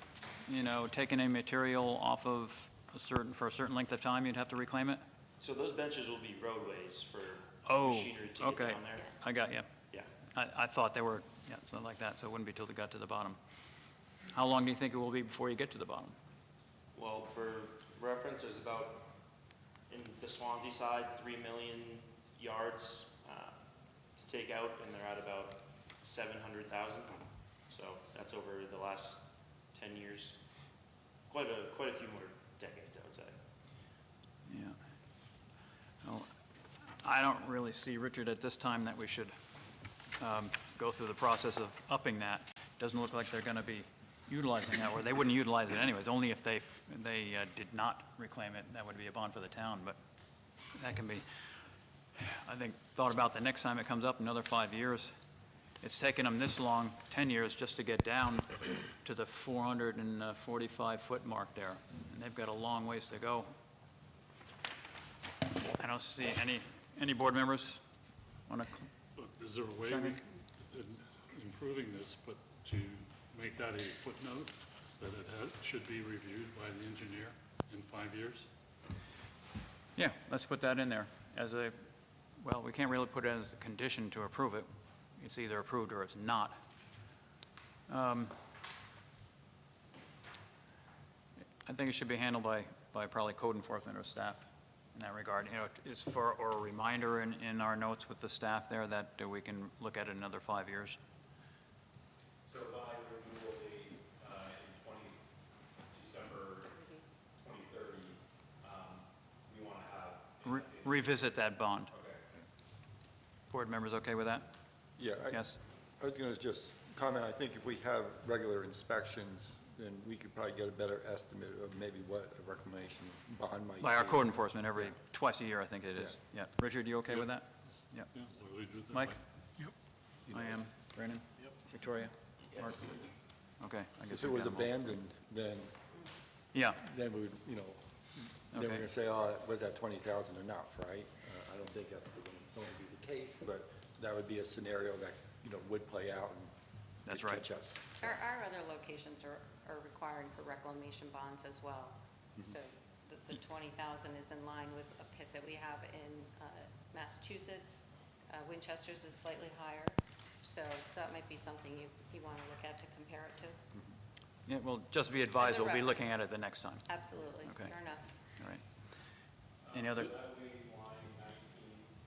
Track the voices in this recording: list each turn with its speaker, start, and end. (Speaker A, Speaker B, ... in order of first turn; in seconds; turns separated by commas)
Speaker A: 0.5-5.0, Speaker B: 5.4-9.2, Speaker A: 7.6-9.7, Speaker A: 10.3-13.4, Speaker A: 14.3-16.1, Speaker B: 16.9-19.1, Speaker B: 19.9-23.5, Speaker B: 24.1-30.4, Speaker B: 31.3-33.3, Speaker A: 34.5-34.8, Speaker A: 36.0-36.3, Speaker A: 37.0-39.3, Speaker A: 40.2-50.0, Speaker A: 50.7-51.2, Speaker A: 52.2-55.1, Speaker A: 55.8-63.5, Speaker A: 65.7-67.8, Speaker A: 68.5-68.8, Speaker C: 69.1-78.5, Speaker A: 69.8-70.2, Speaker A: 80.0-81.7, Speaker A: 82.4-84.7, Speaker A: 85.2-86.6, Speaker A: 87.9-88.3, Speaker A: 91.7-101.0, Speaker D: 102.4-105.2, Speaker D: 105.9-106.8, Speaker E: 106.7-107.0, Speaker D: 107.4-112.2, Speaker A: 110.4-111.9, Speaker A: 113.5-114.5, Speaker F: 115.0-124.9, Speaker A: 115.3-115.6, Speaker A: 123.8-128.2, Speaker C: 127.2-129.2, Speaker A: 128.9-129.2, Speaker A: 130.3-132.9, Speaker A: 133.6-134.8, Speaker F: 134.1-135.7, Speaker A: 136.5-136.8, Speaker F: 136.8-137.9, Speaker F: 138.5-146.5, Speaker A: 138.5-138.8, Speaker A: 147.1-147.4, Speaker F: 147.1-148.2, Speaker E: 148.0-163.6, Speaker A: 164.4-167.7, Speaker E: 165.3-166.2, Speaker E: 166.9-168.1, Speaker A: 168.4-168.6, Speaker D: 169.6-171.9, Speaker A: 169.7-170.1